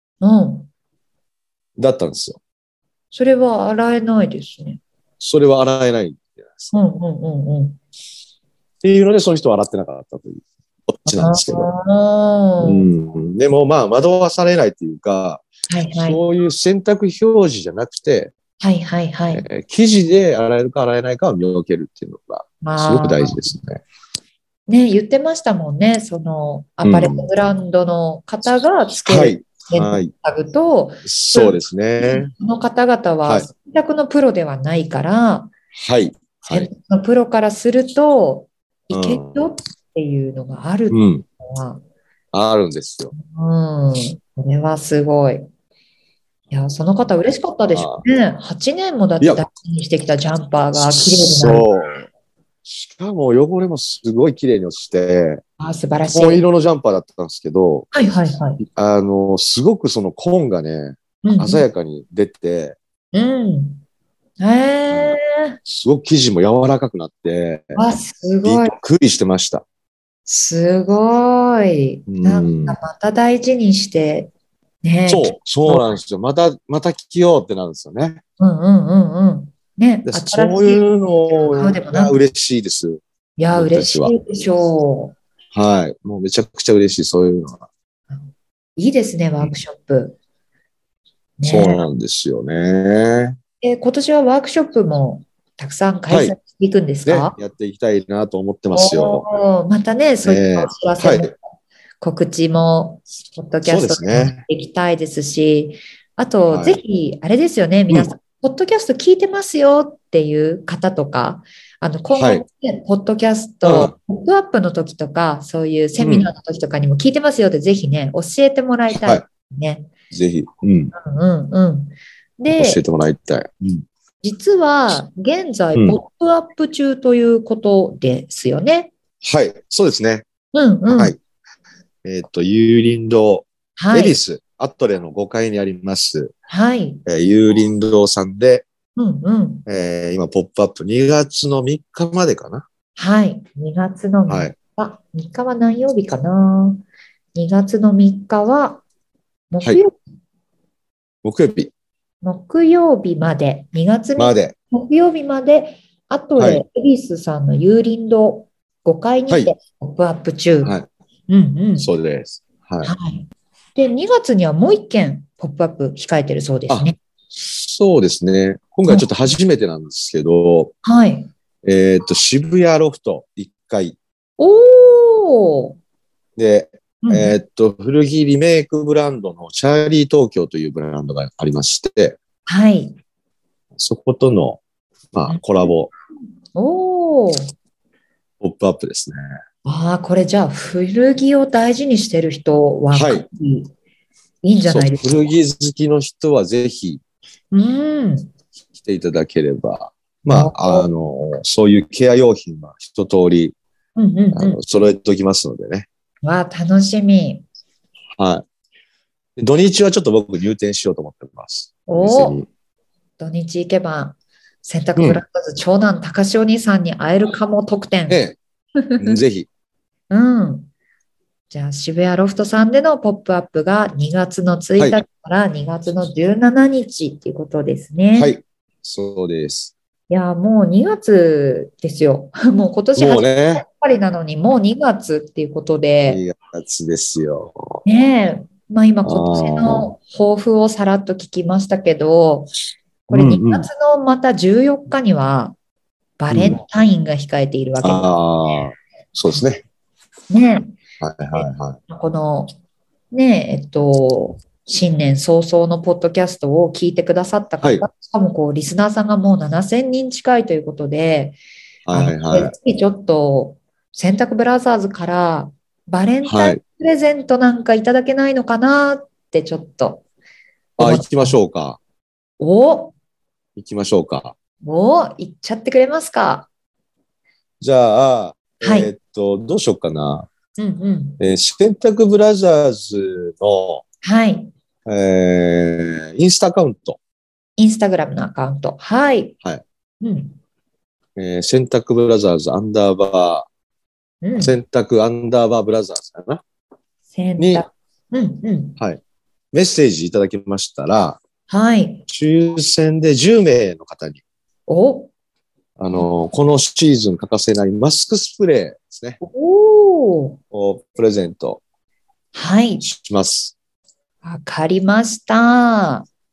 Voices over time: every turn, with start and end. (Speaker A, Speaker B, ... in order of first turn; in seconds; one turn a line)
Speaker A: 0.2-0.7
Speaker B: 1.8-2.4
Speaker A: 3.1-4.8
Speaker B: 5.2-6.8
Speaker A: 6.7-7.8
Speaker B: 8.8-11.7
Speaker A: 11.1-12.9
Speaker B: 12.6-15.4
Speaker A: 15.7-16.2
Speaker B: 16.0-18.3
Speaker A: 18.6-19.4
Speaker B: 19.3-23.8
Speaker A: 22.6-23.4
Speaker A: 24.7-35.5
Speaker B: 26.8-27.3
Speaker B: 29.1-30.1
Speaker B: 31.0-32.3
Speaker B: 35.8-36.7
Speaker A: 36.5-41.8
Speaker B: 38.9-39.5
Speaker B: 40.9-41.2
Speaker B: 42.3-43.1
Speaker A: 43.1-45.5
Speaker A: 46.5-51.7
Speaker B: 47.7-48.0
Speaker B: 50.8-52.0
Speaker B: 52.7-55.4
Speaker A: 55.6-56.5
Speaker B: 56.1-57.9
Speaker A: 57.9-58.6
Speaker B: 58.7-62.8
Speaker A: 61.2-61.7
Speaker A: 63.1-63.8
Speaker A: 64.4-65.6
Speaker B: 64.9-67.8
Speaker A: 67.8-68.8
Speaker B: 68.5-69.6
Speaker A: 70.3-74.3
Speaker B: 72.1-72.8
Speaker A: 74.8-76.0
Speaker B: 75.1-78.2
Speaker A: 78.4-82.2
Speaker B: 80.1-83.0
Speaker A: 83.4-85.2
Speaker B: 83.5-84.1
Speaker B: 85.5-87.7
Speaker A: 88.8-90.2
Speaker A: 91.4-91.8
Speaker B: 91.5-93.4
Speaker A: 93.6-97.3
Speaker B: 96.1-96.4
Speaker B: 97.0-99.3
Speaker A: 98.7-101.4
Speaker B: 100.2-101.3
Speaker A: 102.0-119.9
Speaker B: 103.7-104.4
Speaker B: 106.5-106.8
Speaker B: 112.2-112.5
Speaker B: 113.6-113.9
Speaker B: 116.0-116.3
Speaker B: 120.1-120.9
Speaker A: 121.0-122.8
Speaker B: 122.5-123.8
Speaker A: 124.2-128.9
Speaker B: 125.8-126.0
Speaker B: 129.2-130.3
Speaker A: 130.5-131.2
Speaker B: 130.9-131.2
Speaker B: 132.0-136.3
Speaker A: 133.8-134.2
Speaker A: 136.5-137.0
Speaker B: 137.1-138.7
Speaker A: 139.0-139.7
Speaker B: 139.7-142.7
Speaker A: 143.0-146.8
Speaker B: 144.3-144.5
Speaker A: 147.3-148.8
Speaker A: 149.5-149.9
Speaker B: 151.2-151.7
Speaker A: 152.2-160.8
Speaker B: 154.2-154.6
Speaker B: 156.4-156.6
Speaker B: 160.6-160.9
Speaker A: 161.3-161.9
Speaker B: 161.8-162.9
Speaker A: 162.8-167.0
Speaker B: 166.7-170.8
Speaker A: 168.9-169.4
Speaker A: 170.8-171.3
Speaker B: 171.6-174.0
Speaker A: 174.4-175.8
Speaker B: 176.4-182.2
Speaker A: 177.0-177.3
Speaker A: 182.5-183.0
Speaker B: 183.8-184.6
Speaker B: 185.1-185.9
Speaker A: 185.3-185.7
Speaker A: 186.6-187.5
Speaker B: 188.4-189.2
Speaker A: 189.7-193.7
Speaker B: 192.9-193.3
Speaker A: 194.4-195.3
Speaker B: 194.7-197.0
Speaker A: 197.5-198.3
Speaker B: 198.8-203.6
Speaker A: 200.3-200.9
Speaker A: 204.0-204.6
Speaker B: 204.3-205.9
Speaker A: 206.2-207.4
Speaker B: 208.2-208.4
Speaker B: 209.4-212.5
Speaker A: 211.9-212.4
Speaker A: 213.2-218.2
Speaker B: 218.1-218.4
Speaker A: 218.8-219.2
Speaker B: 219.0-219.5
Speaker A: 220.1-220.7
Speaker A: 221.5-228.3
Speaker B: 228.2-229.7
Speaker A: 230.1-236.2
Speaker B: 233.0-233.6
Speaker B: 236.1-237.8
Speaker A: 237.8-242.5
Speaker B: 239.1-239.9
Speaker B: 243.1-243.7
Speaker A: 243.1-245.6
Speaker A: 246.2-248.7
Speaker B: 246.3-246.6
Speaker B: 247.8-249.6
Speaker A: 250.3-250.8
Speaker B: 251.0-251.8
Speaker A: 251.4-252.5
Speaker A: 253.1-261.4
Speaker B: 261.9-262.5
Speaker A: 261.9-270.0
Speaker B: 266.2-266.6
Speaker A: 270.8-271.4
Speaker B: 270.8-271.8
Speaker A: 272.4-272.9
Speaker B: 273.6-274.4
Speaker A: 274.6-276.5
Speaker B: 277.6-280.3
Speaker A: 278.6-278.9
Speaker A: 280.6-281.2
Speaker B: 281.2-283.8
Speaker A: 284.0-284.5
Speaker B: 284.9-287.0
Speaker A: 287.6-289.4
Speaker A: 290.0-290.4
Speaker B: 291.2-293.5
Speaker A: 294.2-294.6
Speaker B: 294.4-296.4
Speaker A: 297.1-298.8
Speaker B: 297.4-297.7
Speaker B: 299.5-301.2
Speaker A: 301.5-302.1
Speaker B: 302.1-304.2
Speaker A: 304.7-305.1
Speaker B: 305.8-309.2
Speaker A: 309.2-310.4
Speaker B: 310.5-311.6
Speaker A: 312.3-312.9
Speaker B: 312.8-313.6
Speaker A: 314.2-316.1